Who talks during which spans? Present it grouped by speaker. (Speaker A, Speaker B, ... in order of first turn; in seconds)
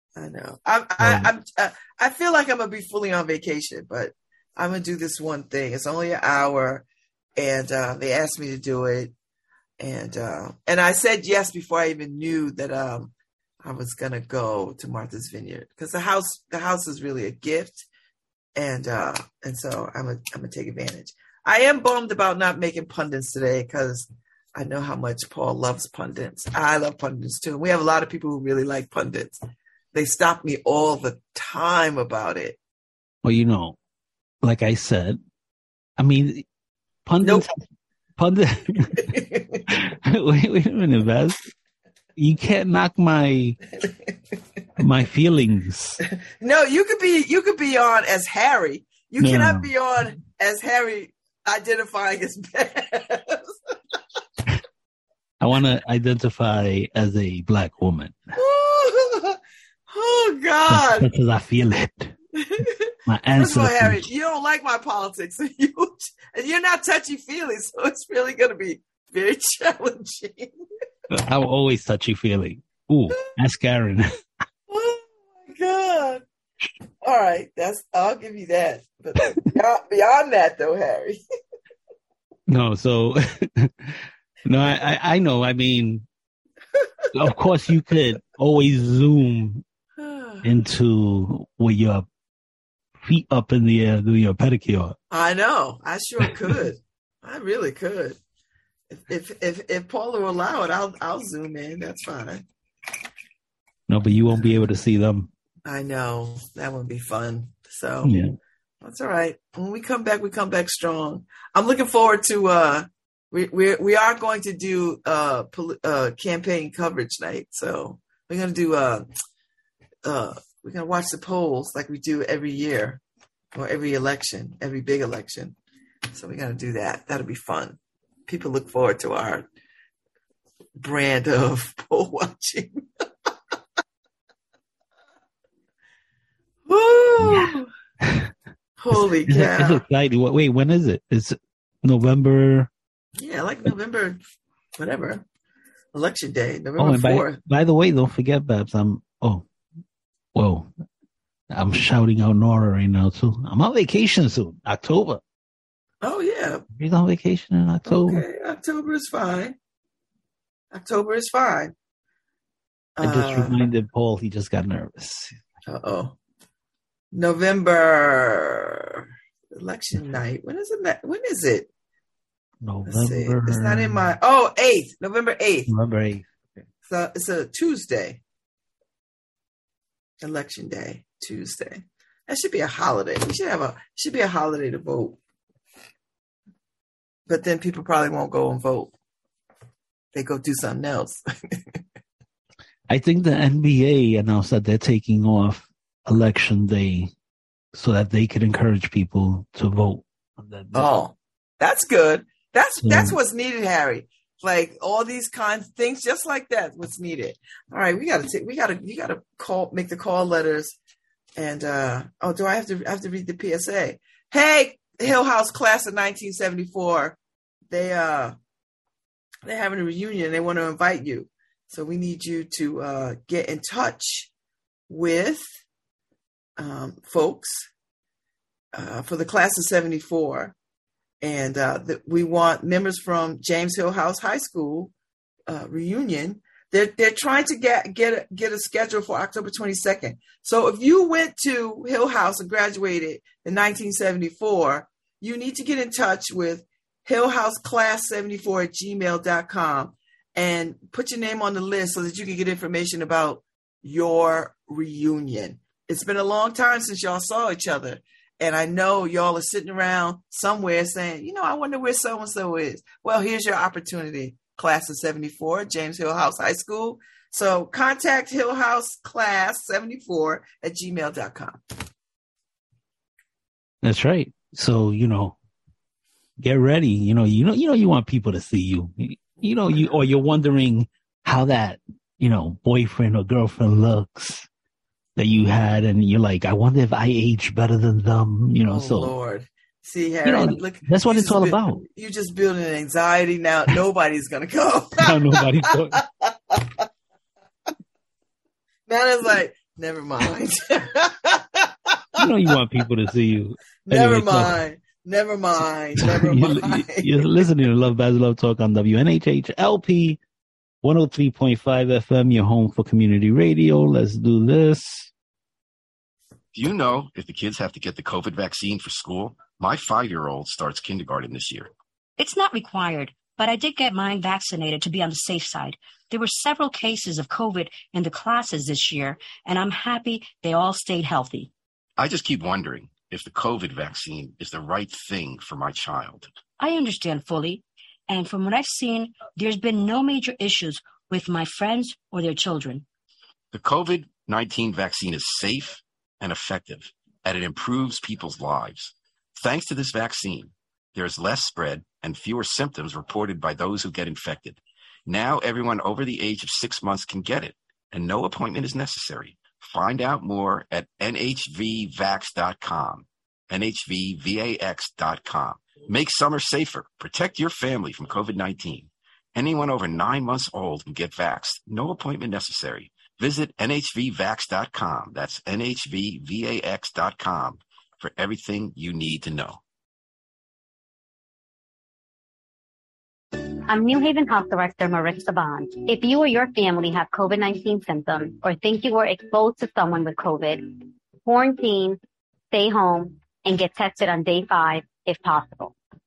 Speaker A: 0.1-6.8, 7.4-9.1, 9.8-17.9, 18.6-29.4, 29.9-32.6, 39.0-39.6, 46.4-53.4, 58.3-59.4, 59.9-61.1, 62.4-70.5, 74.7-76.2, 77.0-81.2, 90.0-90.5, 95.1-98.2, 98.9-102.4, 105.7-108.2, 108.8-119.1, 120.0-123.0, 123.5-125.5, 126.1-129.4, 130.8-132.8, 136.7-137.7, 138.8-139.8, 143.2-144.2, 144.8-145.2, 145.9-147.4, 156.0-156.6, 157.8-159.6, 160.7-161.7, 163.0-163.6, 165.7-166.2, 167.1-171.7, 172.8-175.7, 176.8-178.2, 180.2-185.2, 187.3-188.9, 190.1-191.8, 200.7-210.7, 211.4-217.2, 217.7-218.3, 219.4-224.3, 224.9-225.5, 226.6-227.7, 228.7-230.6, 231.2-234.9, 235.5-271.6, 288.7-295.4, 296.2-296.8, 298.9-302.2, 303.9-307.4
Speaker B: 1.0-1.3, 33.2-33.8, 34.4-35.2, 36.0-36.4, 37.0-37.5, 38.2-39.1, 39.7-41.5, 42.2-43.6, 44.8-46.0, 49.2-49.7, 55.4-58.2, 60.7-62.1, 63.0-64.0, 71.1-74.1, 82.5-86.0, 87.1-89.6, 90.4-92.0, 93.0-95.0, 103.9-105.3, 108.0-108.3, 137.2-137.5, 138.0-138.3, 138.9-142.7, 146.8-149.4, 150.3-150.7, 151.5-155.2, 156.7-158.2, 163.0-165.3, 172.6-174.1, 175.7-176.2, 192.9-197.1, 197.7-200.9, 202.8-203.1, 273.8-275.4, 276.4-284.5, 285.2-289.1, 290.2-291.8, 295.0-296.0, 302.2-304.6, 306.0-310.2, 310.8-315.1
Speaker C: 316.5-321.7, 332.0-336.3, 343.5-379.6
Speaker D: 322.2-331.5, 336.6-342.8
Speaker E: 383.7-390.7, 391.2-392.0, 392.5-395.8